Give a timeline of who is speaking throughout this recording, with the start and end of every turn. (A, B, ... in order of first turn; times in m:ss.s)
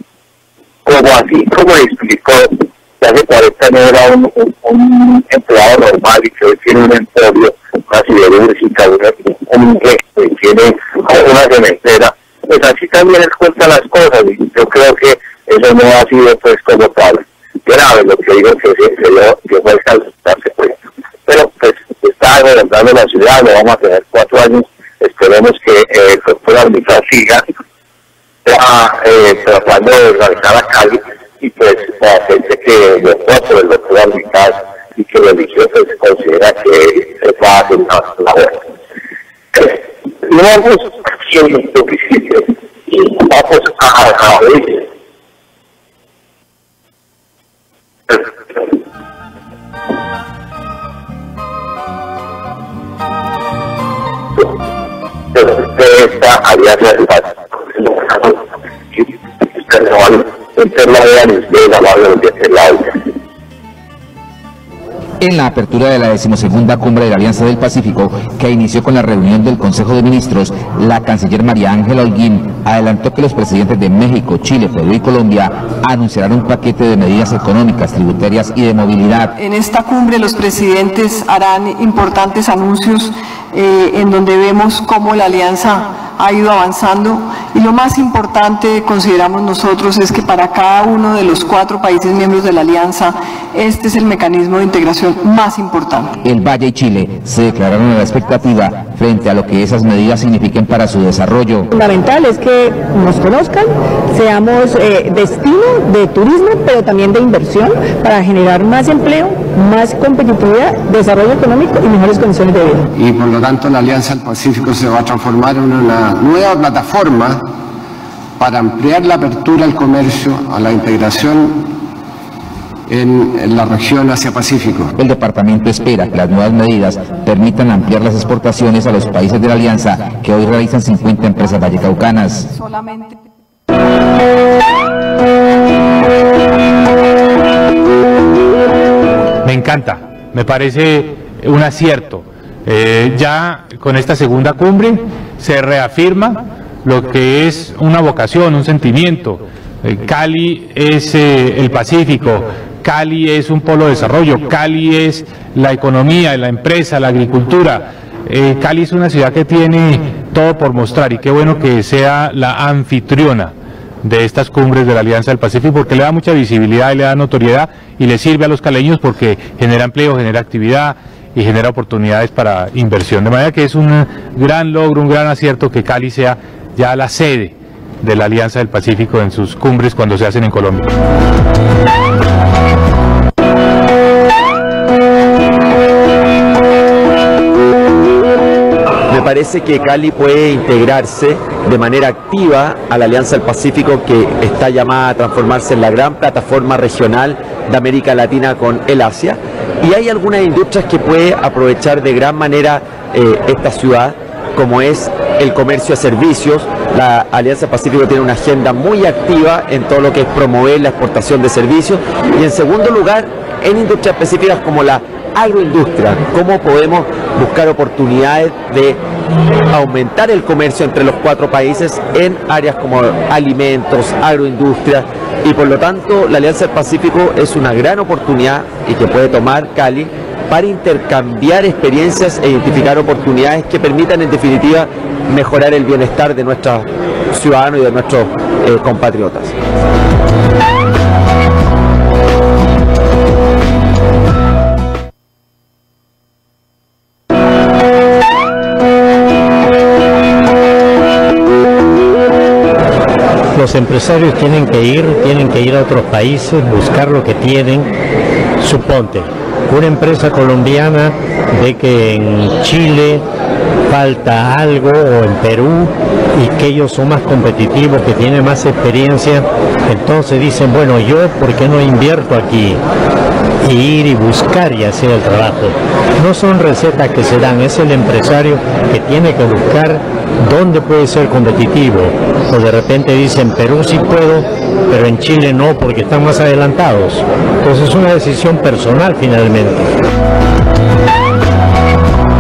0:00.8-0:27.4 A
0:28.4-0:38.7 A
0:39.5-0:44.9 A
0:48.1-0:48.6 A
0:55.3-1:03.0 A
1:05.2-1:19.3 B
1:19.4-1:36.1 C
1:36.2-1:41.7 B
1:41.7-1:52.9 D
1:53.0-1:57.6 E
1:58.4-2:01.8 E
2:02.9-2:04.9 E
2:05.0-2:12.5 B
2:12.6-2:13.2 C
2:19.4-3:00.9 F
3:09.1-3:39.0 G
3:39.7-3:59.5 G
4:13.5-4:17.9 H
4:18.6-4:23.3 H
4:23.9-4:32.8 H
4:33.6-4:49.9 H